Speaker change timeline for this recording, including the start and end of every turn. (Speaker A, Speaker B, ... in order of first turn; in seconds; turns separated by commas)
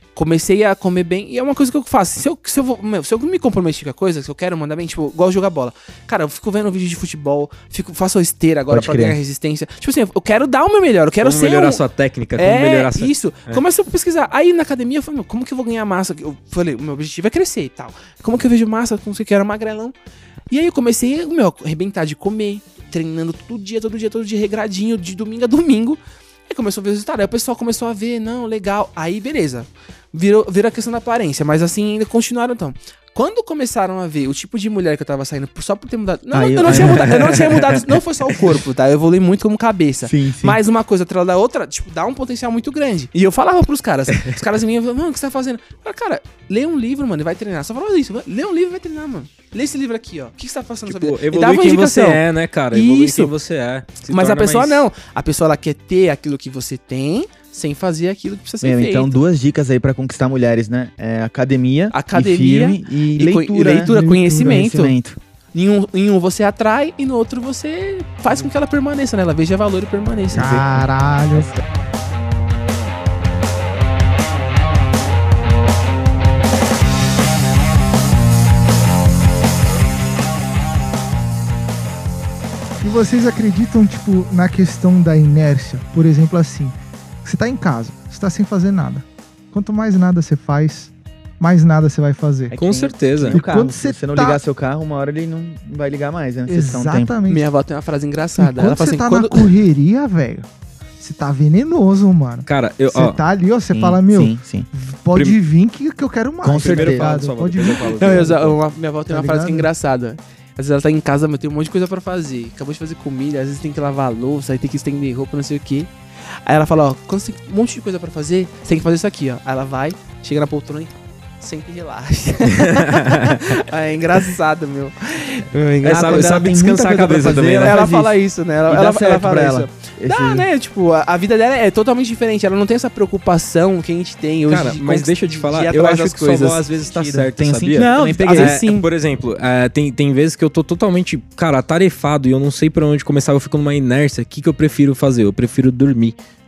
Speaker A: 0.1-11.8, Speaker B: 8.7-9.2, Speaker C: 11.2-13.6, Speaker A: 12.4-19.9, Speaker A: 20.5-53.3, Speaker B: 36.3-37.3, Speaker C: 36.6-38.6, Speaker B: 40.0-40.6, Speaker C: 50.9-54.9, Speaker A: 54.1-59.2, Speaker B: 58.6-65.2, Speaker A: 61.9-65.0, Speaker D: 63.7-64.8, Speaker A: 65.5-70.6, Speaker B: 70.3-71.6, Speaker D: 70.3-71.5, Speaker D: 82.8-92.6, Speaker B: 92.5-97.1, Speaker C: 92.6-93.4, Speaker D: 93.3-94.4, Speaker D: 96.5-97.5, Speaker A: 97.3-99.5, Speaker D: 98.4-100.5, Speaker D: 101.0-108.4, Speaker C: 102.5-103.2, Speaker B: 103.7-104.7, Speaker B: 106.4-107.1, Speaker C: 106.5-108.6, Speaker A: 108.0-115.9, Speaker D: 109.1-109.7, Speaker A: 116.5-125.5, Speaker C: 122.6-123.4, Speaker B: 125.5-130.5, Speaker C: 125.8-127.8, Speaker A: 126.0-126.4, Speaker A: 127.6-138.9, Speaker C: 134.5-146.2, Speaker B: 137.2-138.6